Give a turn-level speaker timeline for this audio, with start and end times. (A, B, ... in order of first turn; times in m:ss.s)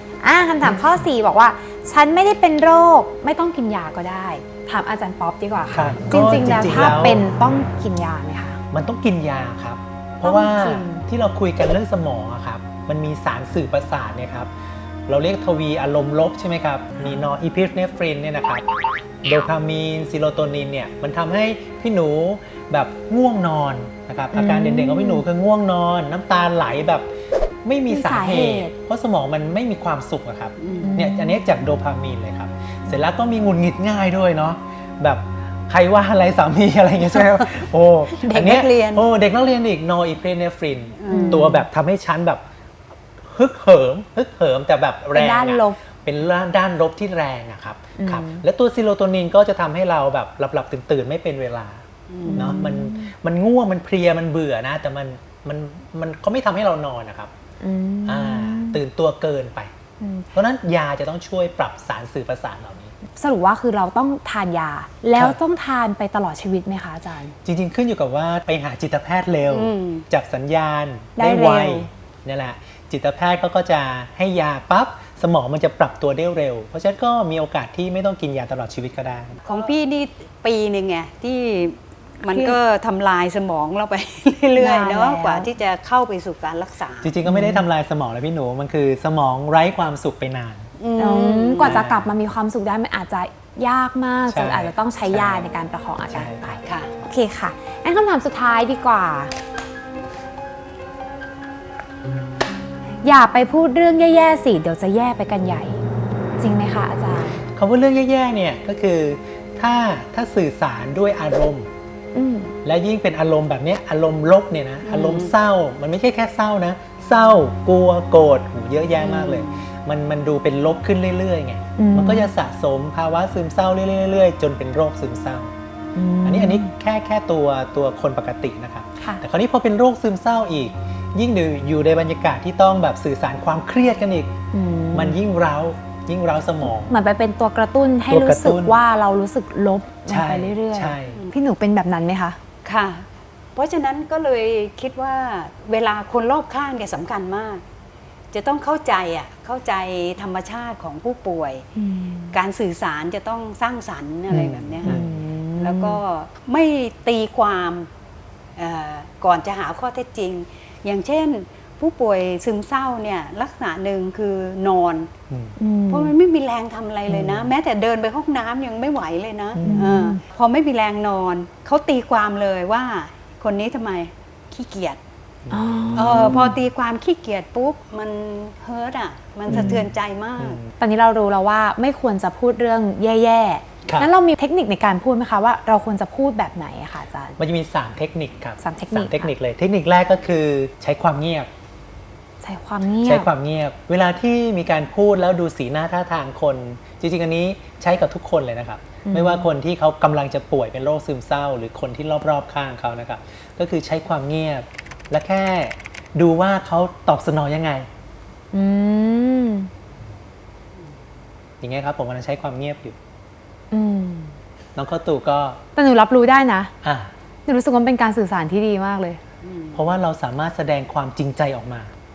0:00.2-0:08.6 A
0:00.6-0:01.0 B
0:05.7-0:07.2 B
0:08.7-0:14.5 B
0:10.2-0:11.0 A
0:15.1-0:18.6 B
0:19.2-0:27.1 B
0:24.3-0:25.2 A
0:27.6-0:42.4 B
0:27.9-0:28.7 A
0:30.6-0:30.9 C
0:30.8-0:31.4 A
0:38.1-0:39.1 C
0:41.0-0:41.5 C
0:41.1-0:41.6 A
0:43.2-0:57.3 B
0:45.1-0:45.8 A
0:48.0-0:48.4 A
0:52.1-0:52.6 C
0:52.2-0:53.1 A
0:57.6-0:58.8 A
0:58.0-0:59.7 B
1:00.0-1:00.3 A
1:00.3-1:02.9 B
1:03.2-1:07.3 A
1:07.4-1:19.4 B
1:09.5-1:10.0 C
1:11.2-1:11.9 A
1:19.4-1:27.2 C
1:22.2-1:22.6 A
1:24.6-1:25.5 A
1:27.0-1:30.7 B
1:27.3-1:27.6 A
1:30.8-1:31.8 C
1:31.0-1:39.3 A
1:31.6-1:32.1 B
1:34.3-1:35.4 B
1:36.1-1:36.6 B
1:36.6-1:36.9 C
1:43.0-1:45.8 A
1:46.4-1:47.4 A
1:47.5-1:51.7 B
1:52.1-1:52.5 A
1:52.6-2:05.5 B
1:54.8-1:55.3 C
1:59.0-1:59.6 C
2:01.8-2:02.3 A
2:05.9-2:06.7 A
2:06.2-2:14.3 B
2:14.5-2:15.2 A
2:14.9-2:16.9 B
2:16.9-2:22.4 A
2:18.1-2:18.8 B
2:20.1-2:21.2 B
2:22.6-2:27.6 C
2:28.3-2:31.7 C
2:31.8-2:32.4 A
2:32.3-2:35.0 C
2:34.3-2:35.1 B
2:34.8-2:36.0 A
2:35.6-2:37.9 C
2:38.6-2:45.1 C
2:45.3-2:45.6 B
2:45.6-2:46.1 A
2:45.9-2:55.0 C
2:47.1-2:47.5 B
2:49.6-2:49.9 B
2:49.6-2:50.2 A
2:55.4-2:56.6 B
2:55.5-2:56.4 A
2:56.0-3:00.6 C
2:59.5-3:00.7 B
2:59.5-2:59.8 A
3:00.8-3:07.4 A
3:07.4-3:11.5 B
3:08.6-3:09.3 A
3:12.4-3:13.3 A
3:13.0-3:27.9 B
3:19.0-3:19.5 A
3:28.5-3:29.7 A
3:31.6-3:33.0 B
3:33.7-3:34.4 A
3:34.7-3:35.6 B
3:35.8-3:36.7 A
3:36.8-3:37.1 B
3:37.4-3:39.2 A
3:39.4-3:39.8 C
3:39.7-3:41.9 B